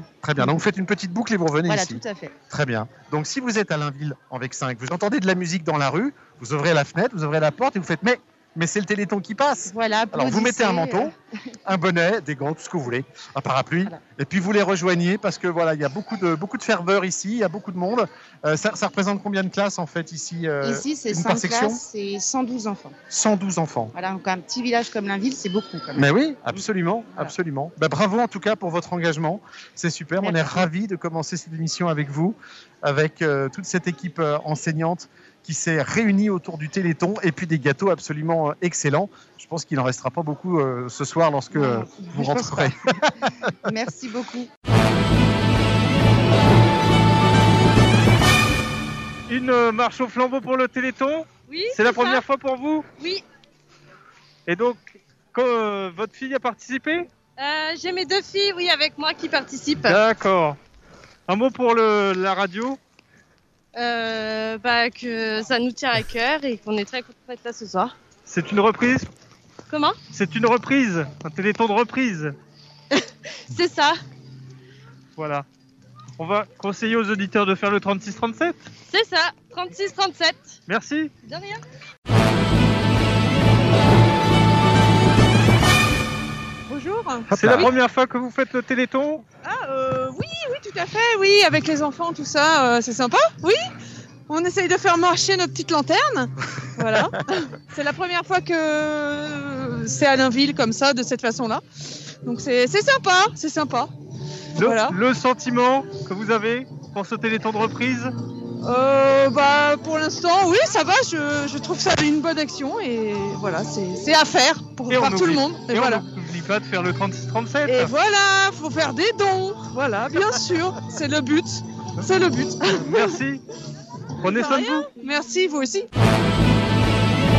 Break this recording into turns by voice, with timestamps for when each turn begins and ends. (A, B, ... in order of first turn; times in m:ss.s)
0:00.2-0:11.1 A
0:01.7-0:02.3 B
0:09.7-0:11.1 B
0:11.6-0:21.8 A
0:20.6-0:22.9 B
0:23.1-0:23.9 A
0:23.9-0:26.6 B
0:26.0-0:43.1 A
0:30.2-0:30.7 B
0:41.5-0:42.7 B
0:43.6-0:44.5 B
0:49.3-0:52.8 C
0:51.5-0:52.2 D
0:53.0-0:53.2 D
0:54.5-0:57.1 C
0:57.4-1:00.0 D
0:59.8-1:00.6 C
1:01.3-1:02.8 C
1:03.8-1:07.9 D
1:08.3-1:09.1 C
1:09.7-1:10.0 D
1:10.1-1:12.3 C
1:12.9-1:13.9 D
1:15.2-1:15.4 C
1:16.2-1:18.6 C
1:18.9-1:20.5 D
1:20.7-1:21.1 C
1:21.2-1:21.6 D
1:26.7-1:27.7 E
1:27.3-1:29.2 C
1:29.4-1:33.6 E
1:34.3-1:41.6 E
1:42.2-1:43.9 E
1:44.6-1:48.1 C
1:44.6-1:45.0 E
1:48.6-1:56.0 E
1:54.9-1:58.0 C
1:57.7-2:03.2 E
2:02.7-2:03.4 C
2:04.2-2:04.9 C
2:04.3-2:05.9 E